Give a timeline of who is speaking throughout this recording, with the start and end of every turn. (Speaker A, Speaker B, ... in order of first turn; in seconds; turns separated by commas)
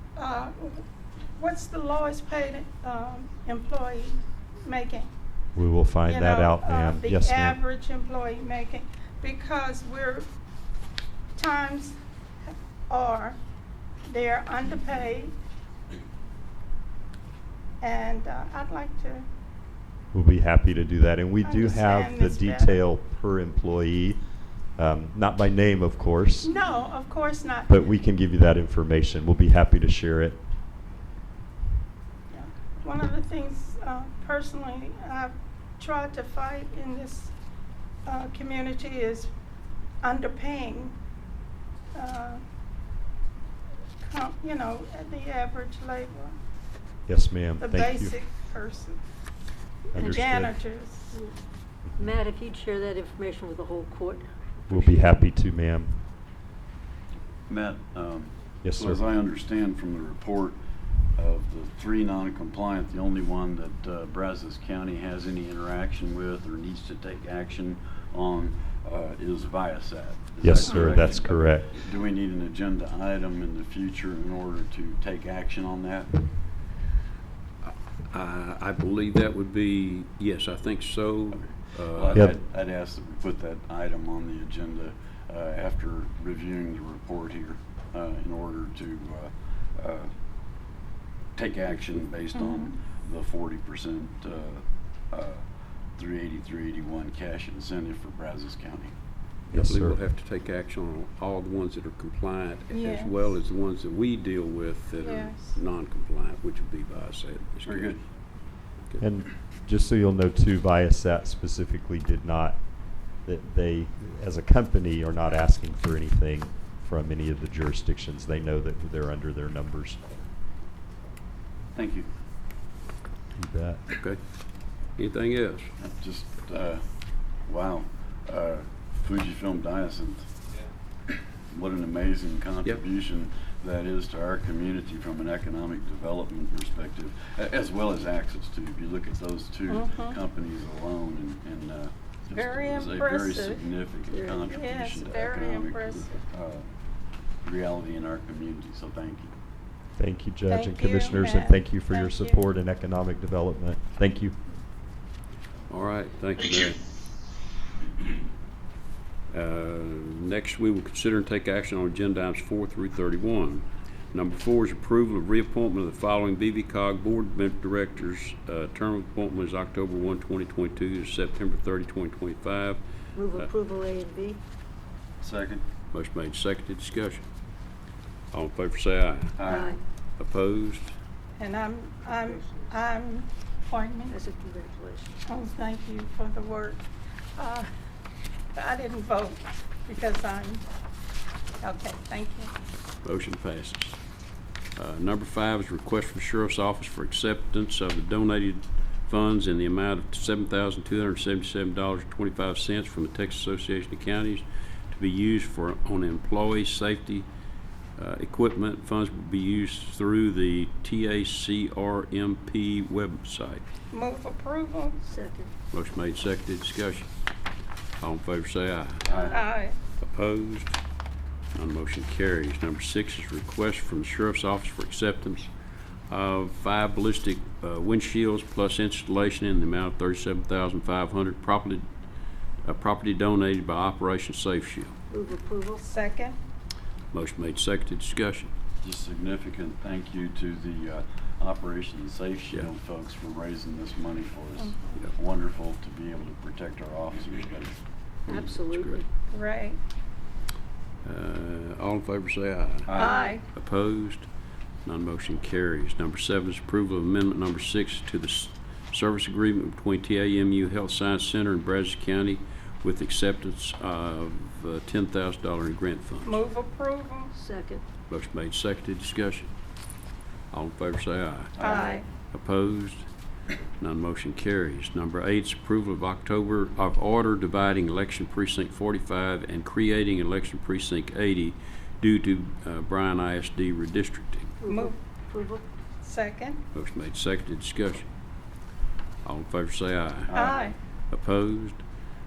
Speaker A: 0.1-0.8, Speaker A: 1.4-5.1, Speaker B: 5.5-7.6, Speaker A: 6.0-10.3, Speaker A: 11.3-11.9, Speaker A: 12.9-13.4, Speaker A: 14.1-15.3, Speaker A: 17.8-19.3, Speaker B: 20.1-24.2, Speaker A: 21.4-22.8, Speaker B: 24.7-26.5, Speaker A: 26.4-27.7, Speaker B: 27.7-30.4, Speaker A: 32.3-37.3, Speaker A: 38.0-39.3, Speaker A: 40.0-41.0, Speaker A: 41.9-42.4, Speaker A: 44.0-46.4, Speaker B: 47.1-48.1, Speaker A: 47.6-49.0, Speaker B: 49.9-50.5, Speaker A: 50.0-51.1, Speaker C: 52.0-55.2, Speaker B: 54.7-56.0, Speaker D: 57.5-60.6, Speaker B: 58.6-59.0, Speaker D: 61.1-76.2, Speaker B: 70.4-71.7, Speaker E: 77.6-82.3, Speaker D: 81.3-90.1, Speaker D: 91.3-95.4, Speaker A: 92.3-92.7, Speaker D: 95.9-98.9, Speaker B: 99.5-100.0, Speaker E: 99.5-108.0, Speaker A: 102.7-103.3, Speaker A: 105.0-105.6, Speaker D: 107.6-108.0, Speaker B: 109.0-120.3, Speaker D: 121.7-122.1, Speaker B: 123.3-123.8, Speaker E: 123.9-124.2, Speaker E: 125.0-125.7, Speaker D: 125.8-126.8, Speaker D: 127.4-130.3, Speaker D: 131.5-146.7, Speaker A: 139.7-140.2, Speaker A: 142.3-143.6, Speaker C: 144.1-144.5, Speaker A: 144.4-146.2, Speaker D: 147.4-149.3, Speaker B: 149.9-154.4, Speaker A: 150.5-152.4, Speaker E: 155.7-156.8, Speaker E: 159.3-172.8, Speaker C: 173.1-174.4, Speaker D: 175.2-175.6, Speaker E: 175.9-177.2, Speaker E: 178.3-179.7, Speaker D: 179.4-179.8, Speaker C: 179.4-179.8, Speaker E: 180.2-180.9, Speaker A: 181.4-184.2, Speaker C: 184.1-185.1, Speaker A: 185.2-186.8, Speaker A: 187.3-187.7, Speaker A: 188.5-190.6, Speaker A: 191.6-192.5, Speaker E: 193.0-194.0, Speaker E: 194.8-207.3, Speaker E: 208.0-213.6, Speaker A: 213.9-215.1, Speaker C: 215.1-215.5, Speaker E: 215.7-217.1, Speaker E: 218.0-219.4, Speaker D: 219.1-219.4, Speaker A: 219.2-219.7, Speaker E: 220.0-220.8, Speaker E: 221.5-225.5, Speaker E: 226.1-231.9, Speaker E: 232.6-235.0, Speaker C: 235.1-235.8, Speaker A: 235.8-236.4, Speaker E: 237.1-238.5, Speaker D: 238.8-247.8, Speaker A: 244.6-244.9, Speaker E: 248.3-249.0, Speaker C: 248.3-249.1, Speaker A: 249.3-249.8, Speaker E: 251.0-254.3, Speaker D: 252.9-253.3, Speaker A: 252.9-253.4, Speaker E: 254.8-266.4, Speaker A: 266.2-267.3, Speaker C: 267.3-267.8, Speaker E: 268.1-269.5, Speaker E: 270.5-271.6, Speaker D: 271.5-272.0, Speaker A: 271.6-272.1, Speaker E: 272.3-273.1, Speaker E: 273.8-284.6, Speaker C: 284.6-285.6, Speaker A: 284.7-285.0, Speaker A: 286.0-286.6, Speaker E: 286.7-288.1, Speaker E: 289.2-290.5, Speaker D: 290.3-290.7, Speaker A: 290.3-290.7, Speaker E: 291.1-291.8